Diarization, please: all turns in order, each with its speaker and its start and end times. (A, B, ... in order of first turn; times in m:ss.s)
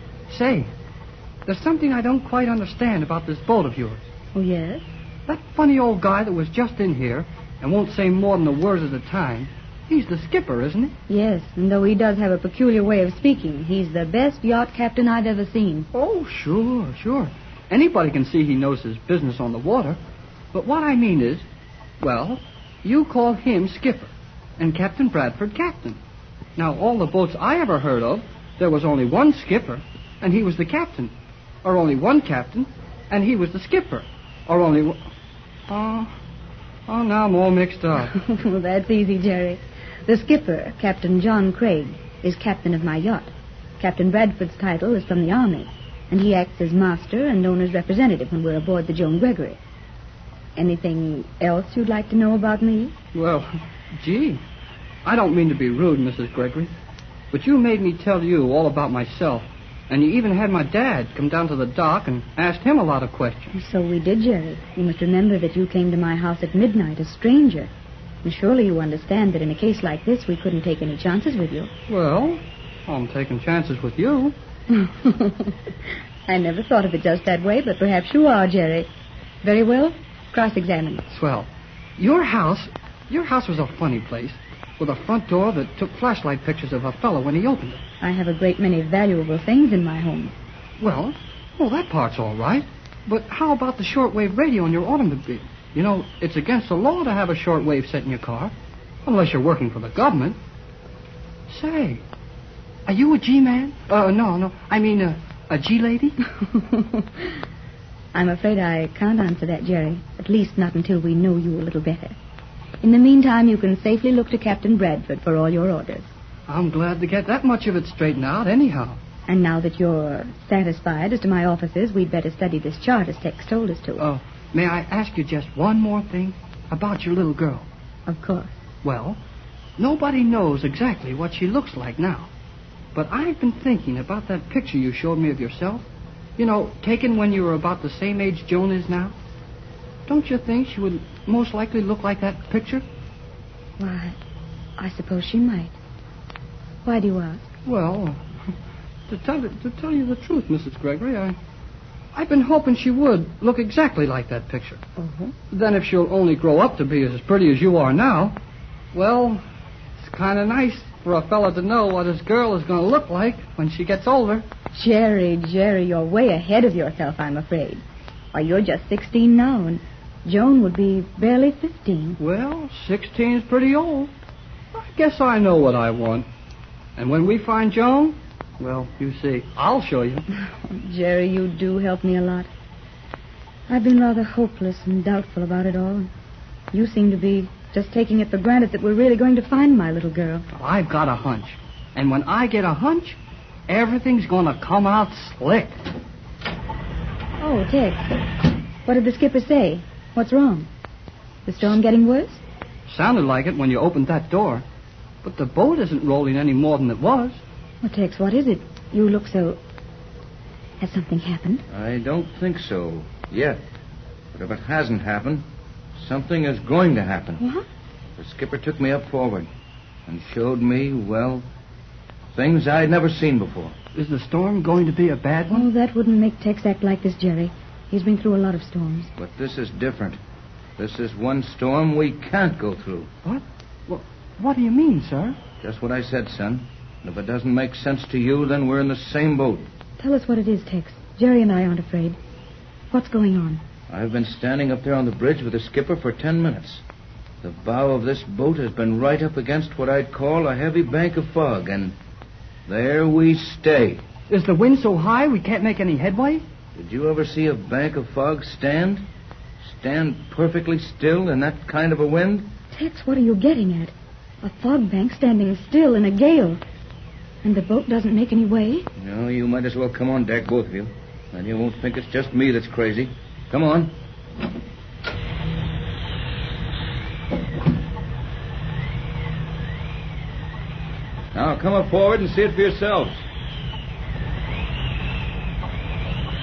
0:00.3-0:00.7 A
0:01.5-0:04.0 A
0:04.4-0:04.8 B
0:05.3-0:11.0 A
0:11.1-0:15.9 B
0:15.9-0:20.0 A
0:20.5-0:21.4 A
0:22.0-0:26.0 A
0:26.6-0:31.1 A
0:31.6-0:35.0 A
0:35.7-0:36.1 A
0:36.9-0:38.1 A
0:38.1-0:49.6 B
0:50.6-0:52.9 B
0:53.1-0:54.4 A
0:55.0-0:56.7 A
0:57.3-1:03.5 A
1:03.5-1:07.7 B
1:08.2-1:11.7 B
1:11.9-1:14.4 A
1:14.7-1:15.6 B
1:16.3-1:18.9 B
1:19.4-1:21.1 B
1:21.1-1:21.5 A
1:22.0-1:27.8 A
1:28.0-1:30.4 B
1:30.8-1:38.5 A
1:39.1-1:40.4 A
1:41.5-1:42.0 A
1:42.9-1:46.2 A
1:46.4-1:47.4 B
1:48.1-1:52.2 B
1:52.8-1:56.1 B
1:56.5-1:59.0 A
1:59.3-2:04.0 B
2:04.0-2:07.7 A
2:08.1-2:08.6 B
2:08.8-2:09.2 A
2:09.8-2:12.3 A
2:13.0-2:15.8 A
2:16.4-2:19.1 A
2:20.1-2:22.8 A
2:23.8-2:24.2 B
2:24.8-2:25.7 B
2:26.8-2:27.5 B
2:27.7-2:28.5 A
2:29.1-2:31.4 A
2:32.1-2:34.8 A
2:35.0-2:35.3 B
2:35.5-2:38.4 A
2:38.9-2:39.4 A
2:40.0-2:44.4 A
2:44.7-2:47.8 B
2:48.3-2:52.2 B
2:52.2-2:54.1 A
2:54.7-2:56.3 A
2:57.0-3:00.2 A
3:00.4-3:02.5 B
3:03.7-3:06.1 B
3:06.7-3:10.5 B
3:10.6-3:13.2 A
3:13.7-3:15.8 A
3:17.4-3:18.1 B
3:18.8-3:20.7 B
3:21.5-3:22.4 B
3:22.9-3:24.6 A
3:25.2-3:27.4 A
3:27.8-3:29.6 B
3:30.8-3:31.6 B
3:31.7-3:33.6 C
3:34.3-3:35.4 C
3:36.0-3:37.4 C
3:37.4-3:37.7 B
3:38.2-3:39.5 C
3:40.1-3:41.5 C
3:42.4-3:43.8 C
3:44.0-3:45.7 A
3:45.5-3:49.1 B
3:49.2-3:50.2 C
3:50.8-3:53.1 C
3:53.2-3:55.4 A
3:55.6-3:59.7 C
4:00.0-4:02.2 B
4:02.9-4:03.6 B
4:03.9-4:06.8 C
4:07.4-4:12.0 C
4:12.7-4:14.0 C
4:14.3-4:16.4 A
4:16.8-4:19.0 C
4:19.7-4:22.5 C
4:22.7-4:26.6 B
4:27.4-4:28.9 B
4:29.0-4:33.9 C
4:41.3-4:43.2 C